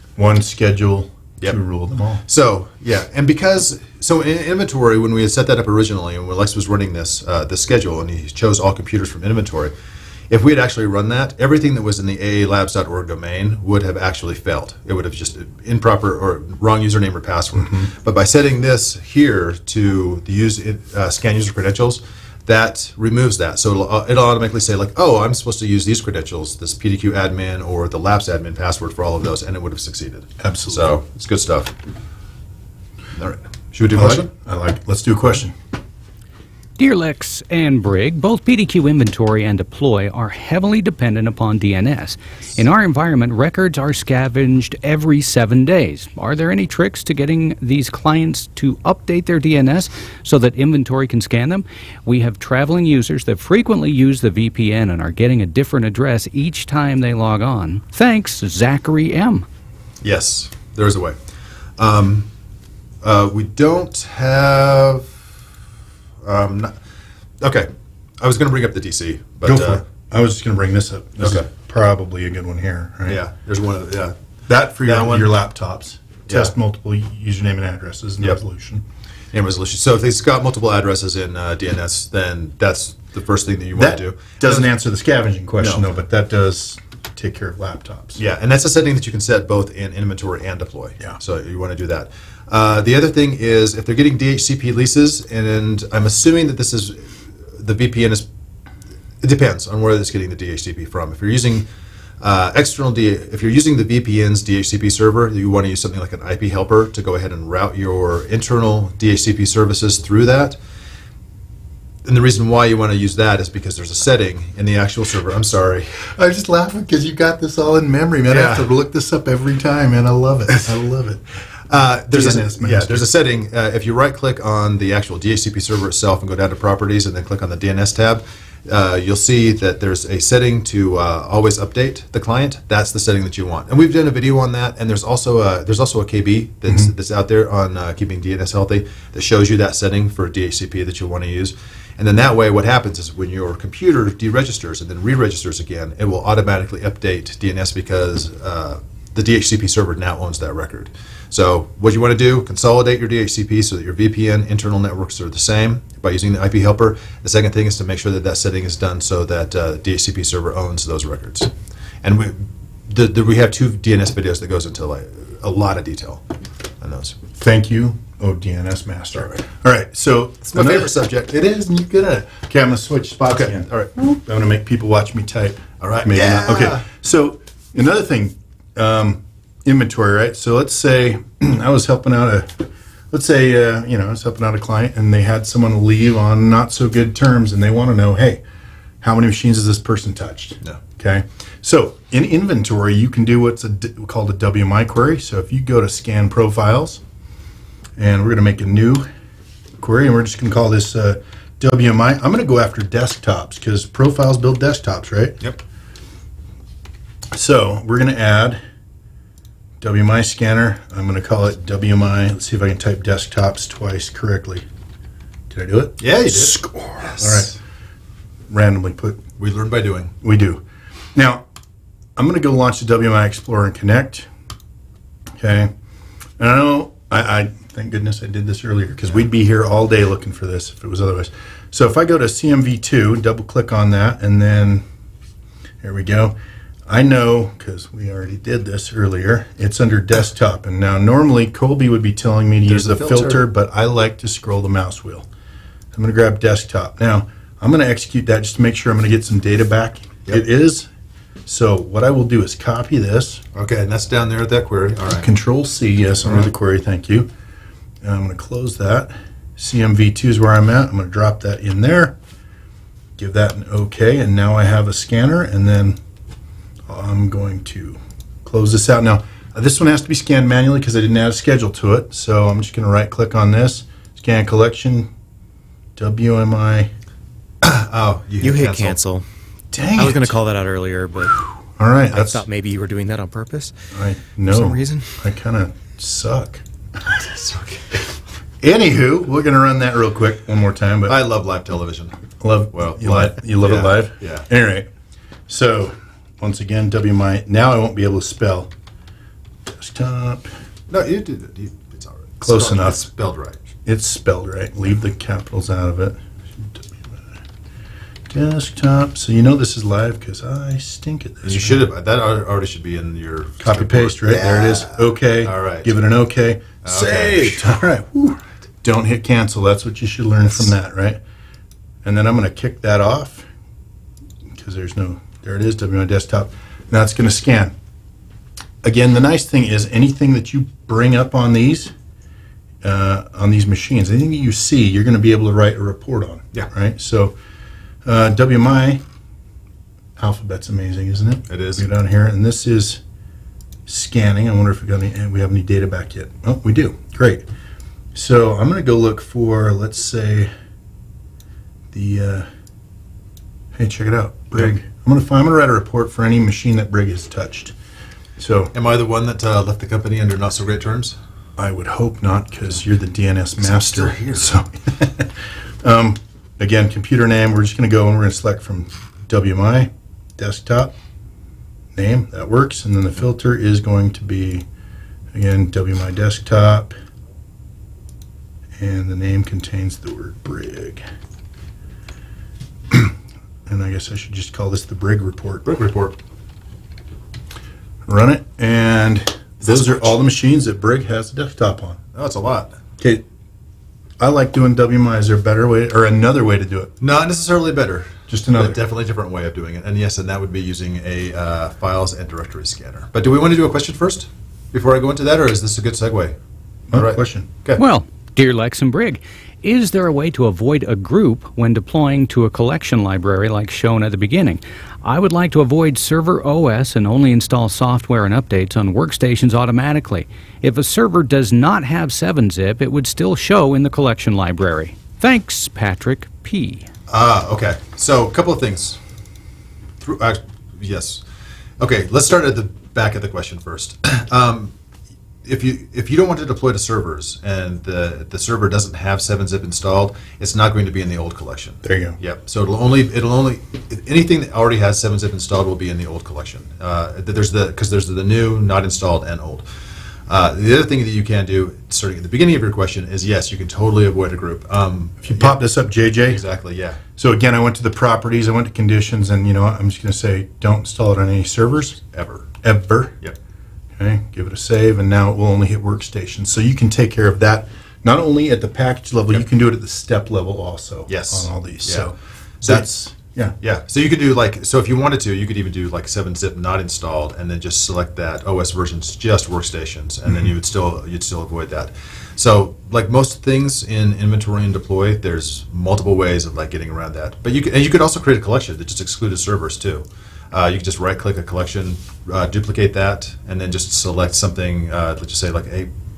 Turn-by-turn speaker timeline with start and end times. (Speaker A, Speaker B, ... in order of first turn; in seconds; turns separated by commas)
Speaker A: 0.1-2.2, Speaker B: 2.2-9.7, Speaker B: 10.3-31.8, Speaker A: 17.6-17.9, Speaker A: 30.4-31.0, Speaker B: 33.1-34.3, Speaker A: 33.9-35.5, Speaker C: 36.8-59.5, Speaker B: 60.0-61.2, Speaker B: 61.8-62.3, Speaker B: 63.0-65.3, Speaker B: 66.2-66.8, Speaker B: 67.4-69.8, Speaker A: 69.4-73.2, Speaker B: 71.2-71.5, Speaker B: 73.1-74.2, Speaker A: 74.5-78.8, Speaker B: 74.7-75.4, Speaker B: 76.3-76.5, Speaker B: 79.3-84.7, Speaker A: 83.7-88.2, Speaker B: 85.6-85.9, Speaker B: 88.2-98.3, Speaker B: 99.2-101.7, Speaker B: 102.2-110.6, Speaker B: 112.0-116.1, Speaker A: 116.0-121.2, Speaker B: 118.3-118.7, Speaker B: 121.7-161.5, Speaker A: 122.1-123.1, Speaker B: 162.0-166.2, Speaker B: 166.8-167.2, Speaker A: 167.4-188.4, Speaker B: 169.1-169.4, Speaker B: 170.4-171.3, Speaker B: 173.2-173.9, Speaker B: 175.8-176.8, Speaker A: 189.0-197.0, Speaker A: 197.9-199.1, Speaker A: 199.8-205.4, Speaker A: 207.3-208.6, Speaker A: 209.8-214.6, Speaker A: 215.5-217.5, Speaker B: 216.0-217.6, Speaker A: 218.5-219.2, Speaker B: 219.4-220.1, Speaker A: 220.2-220.6, Speaker A: 221.1-221.4, Speaker A: 222.2-224.3, Speaker A: 225.4-225.7, Speaker A: 226.4-234.8, Speaker A: 235.8-245.3, Speaker B: 242.7-243.5, Speaker A: 245.9-250.9, Speaker A: 251.4-253.4, Speaker B: 253.5-255.3, Speaker A: 255.1-257.3, Speaker A: 258.0-262.1, Speaker A: 263.2-266.0, Speaker A: 266.9-275.1, Speaker A: 275.9-276.9, Speaker B: 277.6-279.0, Speaker D: 278.4-279.2, Speaker A: 279.7-280.4, Speaker D: 279.9-281.4, Speaker A: 281.8-282.4, Speaker D: 282.1-283.7, Speaker A: 283.9-286.6, Speaker D: 284.5-285.1, Speaker B: 287.1-288.0, Speaker A: 288.6-291.1, Speaker B: 291.1-292.2, Speaker A: 292.4-294.9, Speaker B: 292.7-294.5, Speaker A: 295.5-298.7, Speaker A: 299.7-300.5, Speaker B: 300.9-303.6, Speaker A: 302.4-303.1, Speaker A: 303.8-306.8, Speaker A: 308.3-311.8, Speaker B: 311.4-315.9, Speaker A: 313.6-321.2, Speaker B: 316.8-317.9, Speaker A: 322.0-323.5, Speaker A: 324.5-327.7, Speaker A: 328.8-331.9, Speaker A: 332.8-337.4, Speaker A: 338.0-339.0, Speaker A: 340.2-343.0, Speaker B: 341.5-341.9, Speaker A: 343.9-347.4, Speaker A: 348.1-350.5, Speaker A: 351.9-352.5, Speaker A: 353.7-357.7, Speaker A: 358.4-358.7, Speaker B: 358.7-361.2, Speaker A: 361.6-370.9, Speaker B: 363.6-364.6, Speaker A: 371.9-374.6, Speaker A: 375.3-376.9, Speaker A: 378.8-381.0, Speaker A: 382.9-383.1, Speaker A: 383.7-385.7, Speaker B: 385.6-386.2, Speaker A: 388.1-392.0, Speaker B: 389.6-390.0, Speaker B: 392.1-392.8, Speaker A: 393.0-393.2, Speaker A: 394.2-396.9, Speaker B: 397.0-406.4, Speaker A: 398.3-398.8, Speaker A: 406.9-407.5, Speaker B: 406.9-407.8, Speaker C: 407.8-426.9, Speaker B: 427.1-429.0, Speaker B: 430.0-431.2, Speaker B: 431.8-434.7, Speaker B: 435.4-449.6, Speaker A: 441.8-442.2, Speaker B: 450.3-457.0, Speaker A: 455.2-456.4, Speaker A: 457.2-462.0, Speaker B: 462.1-462.5, Speaker A: 462.6-463.1, Speaker A: 464.0-473.5, Speaker B: 471.1-472.9, Speaker B: 473.6-495.9